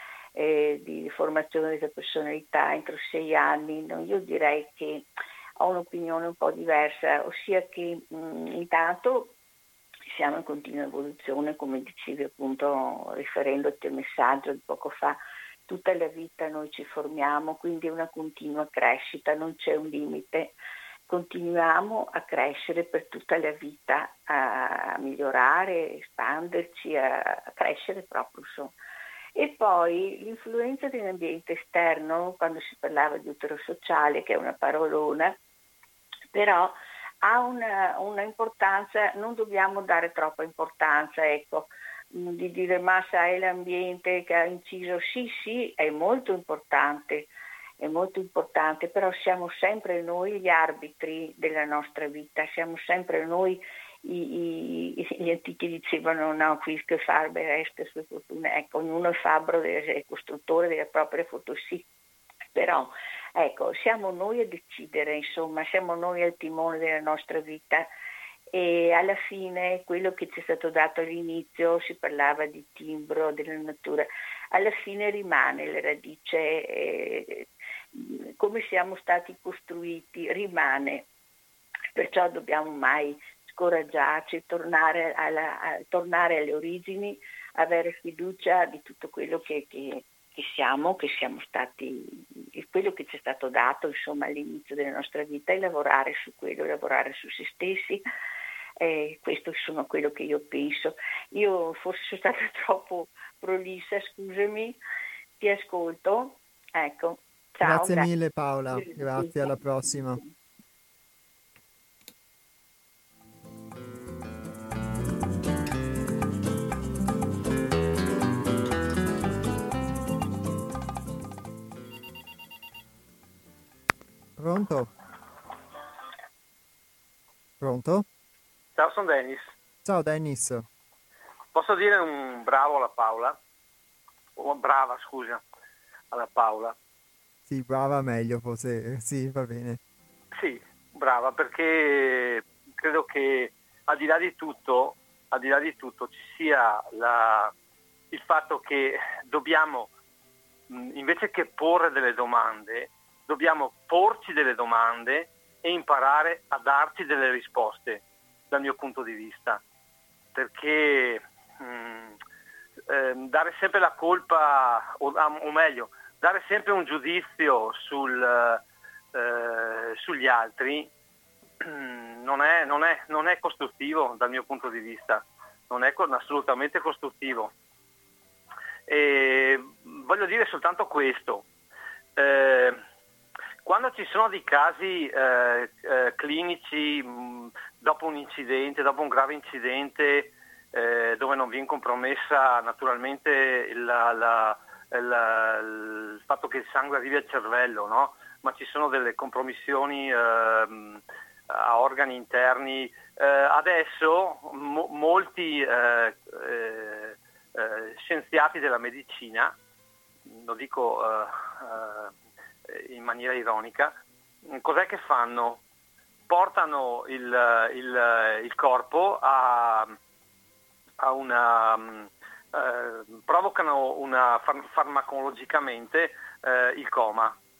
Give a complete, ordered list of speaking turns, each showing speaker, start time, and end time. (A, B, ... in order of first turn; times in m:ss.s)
0:00.3-0:05.1 A
0:05.6-0:09.3 A
0:10.1-0:20.6 A
0:21.1-0:28.7 A
0:29.4-0:35.4 A
0:36.3-1:01.8 A
1:02.5-1:07.9 A
1:08.5-1:21.1 A
1:21.9-1:38.0 A
1:38.8-1:44.8 A
1:45.4-1:48.1 A
1:47.6-1:50.2 B
1:48.7-1:49.6 A
2:04.4-2:04.9 B
2:07.6-2:08.0 B
2:08.8-2:09.5 C
2:09.8-2:10.7 B
2:11.5-2:13.4 C
2:14.4-2:15.4 C
2:16.1-2:16.8 C
2:17.5-2:19.8 B
2:20.4-2:27.5 C
2:28.1-2:29.9 C
2:30.7-2:39.6 C
2:40.3-2:42.2 C
2:42.9-2:50.9 C
2:51.6-2:57.5 C
2:58.9-3:01.4 C
3:02.2-3:02.8 C
3:03.6-3:29.5 C
3:30.3-3:32.1 C
3:32.7-3:33.9 C
3:34.5-3:35.6 C
3:36.3-3:40.0 C
3:41.0-3:47.4 C